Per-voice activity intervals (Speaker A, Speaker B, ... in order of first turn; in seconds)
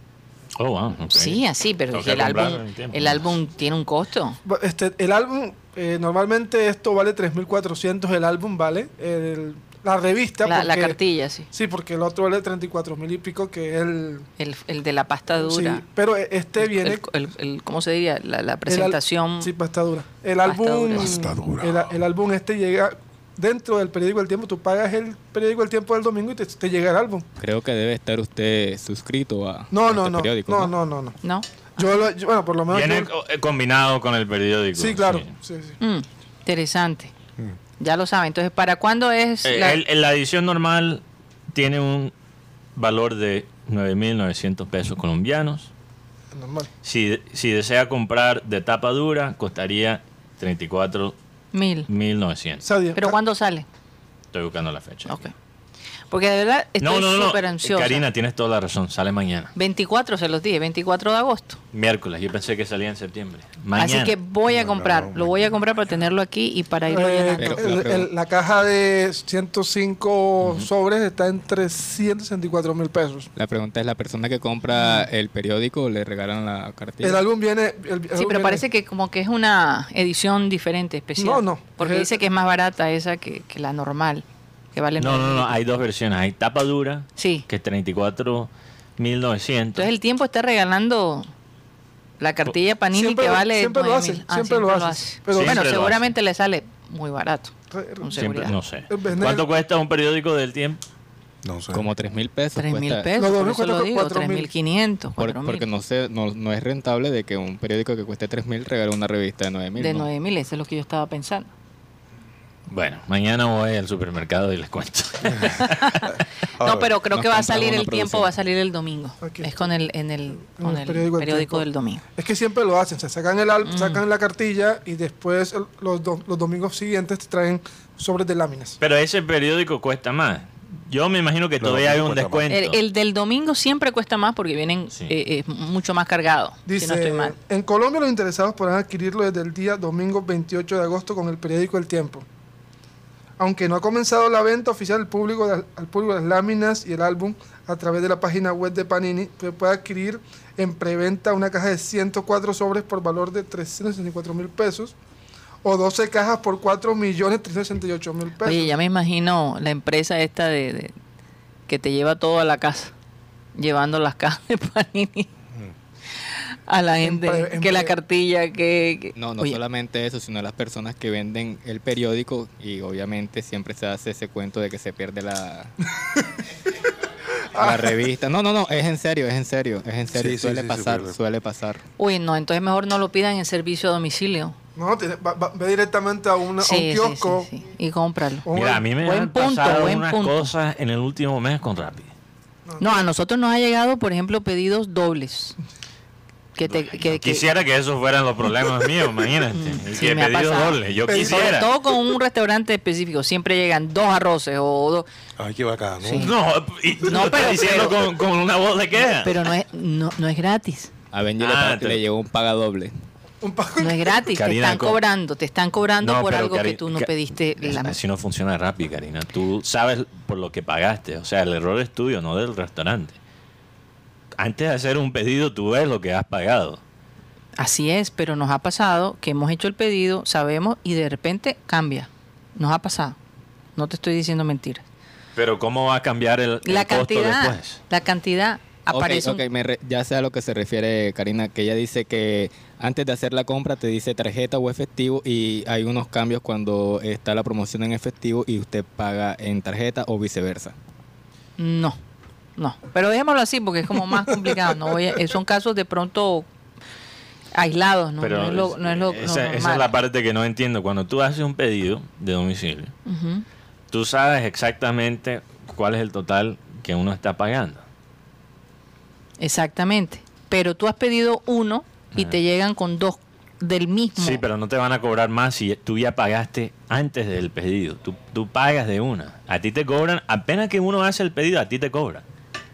Speaker A: 0.6-3.3, 32.7-35.3, 39.4-41.0, 41.5-42.1, 42.8-45.7, 46.8-51.1, 51.9-52.7, 54.3-55.3, 56.8-59.5, 61.7-64.1, 85.0-89.9, 95.3-96.0, 98.2-100.8, 112.7-116.2, 128.8-132.8, 188.5-192.1, 196.6-201.7, 206.2-209.4, 211.4-212.0, 214.3-215.0, 216.0-223.2, 224.4-226.8, 235.3-237.8, 258.2-262.9, 263.9-267.8, 274.2-282.2
Speaker B: 1.1-4.4, 10.4-11.5, 14.4-15.8, 16.6-19.5, 20.4-21.1, 31.2-32.0, 35.8-37.1, 37.8-39.8, 51.5-51.9, 52.9-53.6, 56.1-58.0, 59.5-61.6, 63.8-67.8, 78.1-85.6, 87.2-87.5, 89.8-91.3, 92.2-98.6, 102.5-105.7, 109.8-111.5, 115.6-122.0, 123.6-124.0, 132.5-137.3, 158.4-160.9, 161.7-162.9, 163.6-165.3, 166.3-169.6, 182.0-184.6, 186.6-188.5, 189.0-190.5, 192.8-195.6, 196.6-197.5, 199.5-205.1, 206.0-206.3, 207.0-208.0, 209.2-210.9, 213.8-218.0, 227.6-233.2, 233.8-234.8, 236.6-239.4, 251.6-252.0, 252.6-256.5, 257.5-259.9, 263.1-263.4, 269.4-274.4
Speaker C: 4.4-11.0, 11.5-14.3, 15.4-17.0, 18.7-27.2, 29.7-31.2, 31.8-33.1, 34.8-35.8, 46.3-46.7, 52.6-53.2, 66.9-73.3, 77.0-78.6, 81.2-82.2, 92.9-95.6, 97.7-99.5, 103.2-104.5, 119.2-119.7, 120.5-128.8, 136.7-142.2, 143.4-154.9, 155.6-158.7, 167.0-167.9, 177.6-178.0, 184.8-187.5, 188.4-188.8, 201.1-201.7, 213.4-214.2
Speaker D: 20.9-22.0, 64.5-65.4, 101.4-101.8, 116.6-116.9, 131.6-132.5, 180.1-181.1, 205.4-206.3
Speaker E: 27.4-30.7, 67.4-68.1, 73.3-77.2, 101.7-103.1, 105.2-110.1, 117.1-118.3, 169.2-175.7, 177.6-181.8, 211.1-212.9, 238.9-250.7